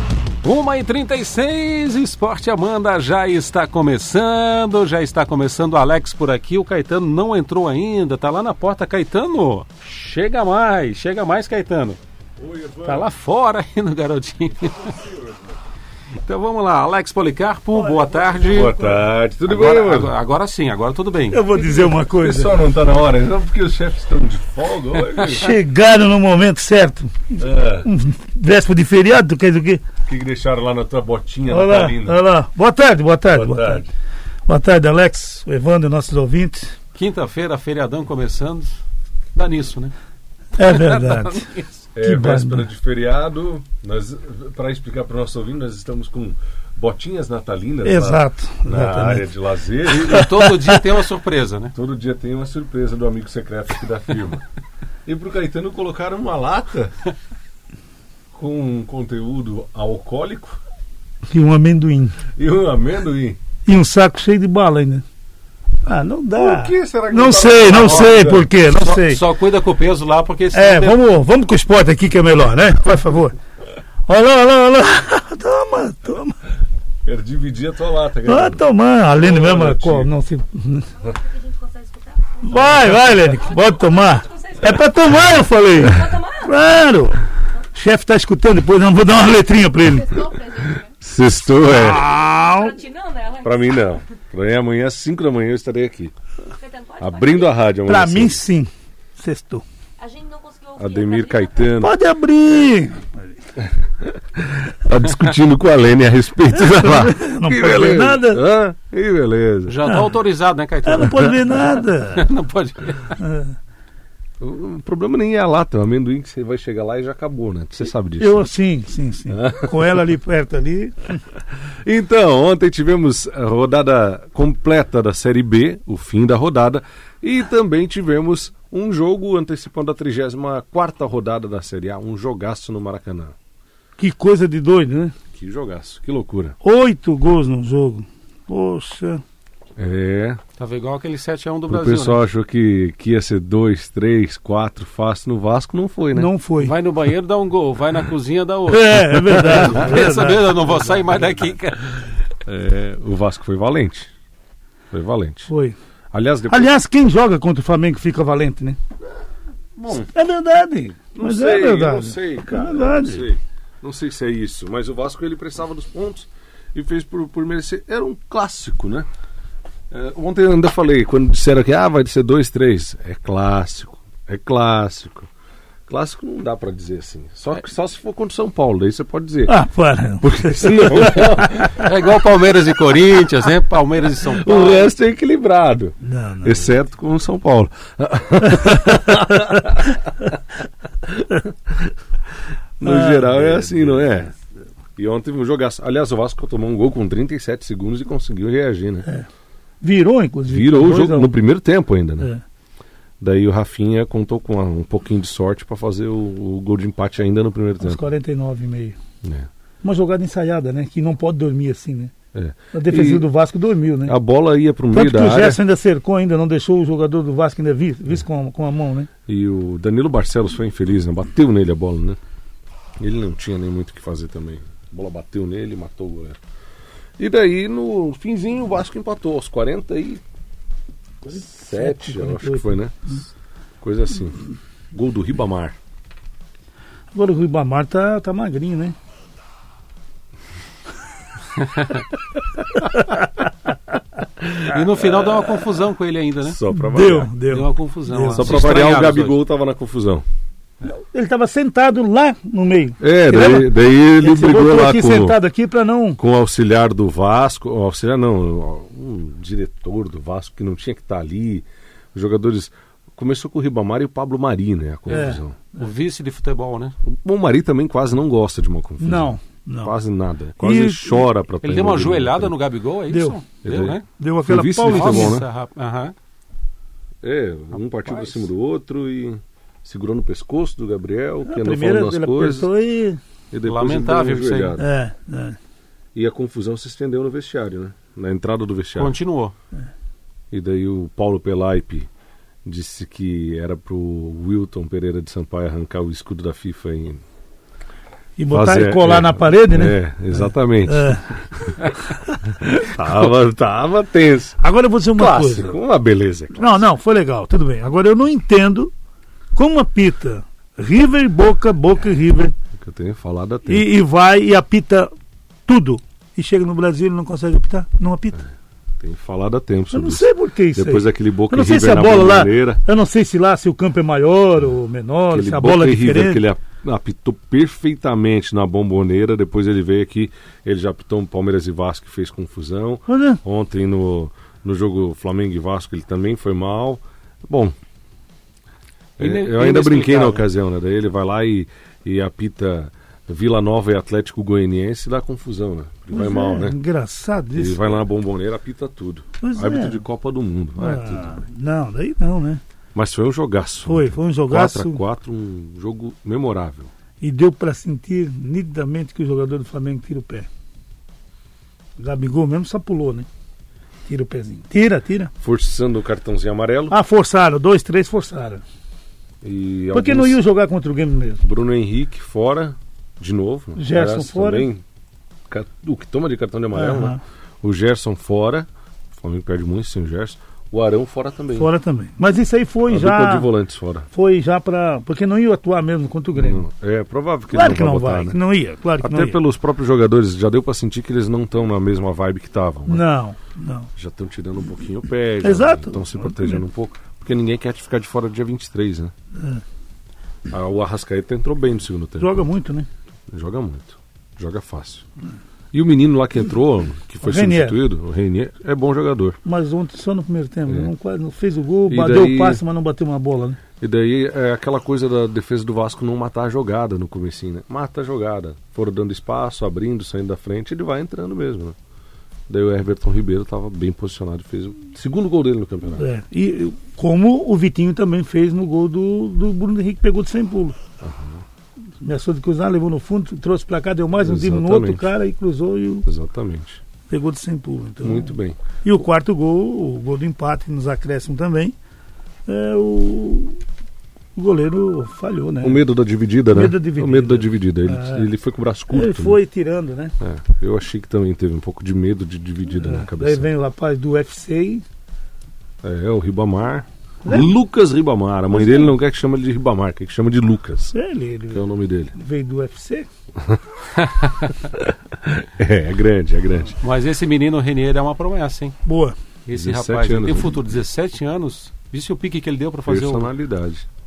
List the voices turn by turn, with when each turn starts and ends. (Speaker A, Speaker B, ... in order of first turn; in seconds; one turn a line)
Speaker A: 0.4-12.0
Speaker B: 12.4-13.1
Speaker A: 12.8-15.0
Speaker B: 14.9-15.6
Speaker A: 16.2-18.8
Speaker C: 17.7-19.0
Speaker B: 18.5-20.1
Speaker A: 19.5-21.5
Speaker C: 21.3-22.6
Speaker B: 21.9-25.6
Speaker C: 25.3-29.8
Speaker B: 27.4-27.9
Speaker B: 30.1-32.2
Speaker C: 31.5-33.9
Speaker B: 33.3-33.9
Speaker C: 34.5-36.8
Speaker A: 37.0-38.7
Speaker A: 39.4-39.9
Speaker C: 40.6-41.5
Speaker A: 40.6-41.8
Speaker B: 41.9-50.3
Speaker C: 42.0-42.6
Speaker C: 47.8-49.3
Speaker A: 49.9-51.7
Speaker C: 50.0-50.3
Speaker B: 51.7-54.4
Speaker B: 55.1-56.9
Speaker B: 58.3-60.6
Speaker C: 61.3-62.2
Speaker B: 62.4-63.4
Speaker C: 63.7-65.0
Speaker C: 65.8-69.2
Speaker B: 66.3-68.5
Speaker A: 67.7-71.0
Speaker C: 70.5-73.4
Speaker C: 74.1-76.4
Speaker B: 77.0-78.6
Speaker C: 78.3-80.9
Speaker B: 79.2-80.1
Speaker D: 81.0-86.6
Speaker C: 82.4-87.2
Speaker C: 87.8-90.3
Speaker D: 89.9-90.9
Speaker B: 90.8-92.1
Speaker C: 91.6-92.8
Speaker D: 91.9-94.0
Speaker B: 93.4-96.1
Speaker D: 96.5-97.6
Speaker B: 97.0-98.4
Speaker C: 97.9-99.6
Speaker D: 100.0-101.8
Speaker B: 100.8-101.9
Speaker C: 101.8-103.2
Speaker B: 104.0-109.8
Speaker C: 106.5-108.4
Speaker A: 109.7-113.2
Speaker C: 109.8-110.1
Speaker C: 110.8-112.2
Speaker C: 113.2-113.6
Speaker B: 114.4-118.4
Speaker C: 118.2-121.2
Speaker B: 119.3-120.0
Speaker B: 121.8-133.3
Speaker C: 134.0-135.2
Speaker B: 135.3-136.6
Speaker C: 136.6-139.2
Speaker B: 139.8-140.4
Speaker A: 140.6-142.2
Speaker B: 141.7-146.3
Speaker C: 146.2-146.7
Speaker A: 146.6-152.1
Speaker C: 148.7-150.5
Speaker B: 149.5-149.9
Speaker B: 150.7-151.3
Speaker B: 152.4-154.1
Speaker B: 154.9-155.5
Speaker C: 155.5-155.8
Speaker B: 156.1-156.7
Speaker C: 156.5-158.8
Speaker B: 159.8-160.1
Speaker C: 159.9-163.3
Speaker B: 161.2-169.1
Speaker B: 169.9-175.3
Speaker B: 175.9-179.6
Speaker C: 179.5-181.4
Speaker B: 180.2-182.1
Speaker A: 181.8-184.9
Speaker B: 184.2-190.4
Speaker C: 186.0-186.7
Speaker B: 191.0-191.9
Speaker B: 192.8-194.3
Speaker C: 192.8-193.6
Speaker B: 195.0-199.1
Speaker C: 199.8-201.3
Speaker B: 200.5-202.3
Speaker B: 203.2-208.0
Speaker C: 207.8-209.0
Speaker B: 209.2-209.5
Speaker C: 209.8-212.1
Speaker B: 212.3-213.3
Speaker C: 212.7-214.2
Speaker B: 214.1-215.6
Speaker C: 214.9-219.1
Speaker B: 219.3-222.2
Speaker B: 223.0-226.4
Speaker B: 227.2-230.2
Speaker B: 231.3-233.1
Speaker C: 231.3-232.8
Speaker B: 233.8-234.4
Speaker B: 234.9-235.8
Speaker C: 237.1-238.9
Speaker C: 242.8-243.1
Speaker A: 244.7-246.6
Speaker B: 245.0-245.5
Speaker B: 246.4-247.3
Speaker C: 246.7-248.5
Speaker A: 247.5-249.4
Speaker B: 248.3-250.2
Speaker C: 250.8-256.2
Speaker B: 253.0-255.4
Speaker B: 256.2-265.6
Speaker C: 265.1-265.4
Speaker A: 265.8-266.9
Speaker B: 267.0-272.5
Speaker C: 269.0-270.0
Speaker C: 270.6-271.3
Speaker A: 271.6-274.0
Speaker C: 273.1-273.4
Speaker B: 273.6-275.5
Speaker C: 274.2-275.4
Speaker A: 274.9-276.1
Speaker B: 277.2-282.7
Speaker A: 278.1-278.4
Speaker C: 281.4-283.2
Speaker B: 283.5-284.9
Speaker A: 283.7-284.8
Speaker C: 284.8-285.6
Speaker B: 286.1-289.2
Speaker A: 289.0-289.6
Speaker B: 290.5-292.1
Speaker B: 292.6-297.2
Speaker C: 298.4-302.9
Speaker B: 298.5-301.7
Speaker B: 302.7-304.6
Speaker C: 304.6-305.8
Speaker B: 305.1-306.8
Speaker C: 306.6-308.9
Speaker C: 309.6-312.6
Speaker B: 312.8-313.9
Speaker C: 313.7-315.1
Speaker C: 315.7-318.4
Speaker B: 319.0-322.8
Speaker C: 319.9-326.4
Speaker B: 325.3-337.8
Speaker C: 333.1-333.4
Speaker A: 339.2-340.4
Speaker B: 339.2-346.8
Speaker C: 346.1-348.0
Speaker B: 347.6-351.4
Speaker C: 349.4-350.0
Speaker C: 350.8-352.6
Speaker B: 352.9-356.9
Speaker C: 353.9-355.0
Speaker C: 357.2-360.5
Speaker C: 362.0-363.3
Speaker C: 364.1-365.3
Speaker B: 365.4-366.9
Speaker C: 366.9-368.6
Speaker B: 369.4-370.4
Speaker C: 369.9-371.4
Speaker B: 371.4-374.8
Speaker C: 373.8-374.7
Speaker B: 375.5-381.7
Speaker C: 376.7-377.2
Speaker C: 381.6-383.5
Speaker B: 382.9-384.1
Speaker C: 384.1-386.6
Speaker B: 386.4-388.4
Speaker C: 387.5-389.4
Speaker B: 389.0-393.1
Speaker C: 392.9-393.9
Speaker B: 394.0-399.1
Speaker C: 395.4-396.6
Speaker C: 399.4-399.6
Speaker B: 400.5-402.5
Speaker C: 402.2-402.9
Speaker B: 403.3-405.0
Speaker B: 405.7-409.4
Speaker C: 407.2-407.8
Speaker C: 409.4-413.6
Speaker B: 411.9-412.6
Speaker B: 413.8-421.8
Speaker B: 422.5-426.1
Speaker C: 426.0-430.8
Speaker B: 431.0-431.4
Speaker C: 432.0-436.1
Speaker B: 434.2-435.1
Speaker B: 436.1-436.8
Speaker C: 437.1-441.7
Speaker B: 438.0-438.6
Speaker C: 442.5-443.6
Speaker C: 444.4-445.8
Speaker B: 445.6-449.4
Speaker C: 446.5-448.3
Speaker C: 448.9-450.1
Speaker B: 450.2-453.5
Speaker C: 452.8-454.8
Speaker B: 455.8-460.9
Speaker C: 457.2-457.5
Speaker C: 458.5-458.9
Speaker C: 460.9-463.1
Speaker B: 461.5-462.1
Speaker A: 464.0-464.5
Speaker B: 464.7-466.8
Speaker A: 466.8-468.8
Speaker C: 468.9-469.2
Speaker A: 469.5-473.3
Speaker B: 469.5-470.6
Speaker B: 472.9-473.9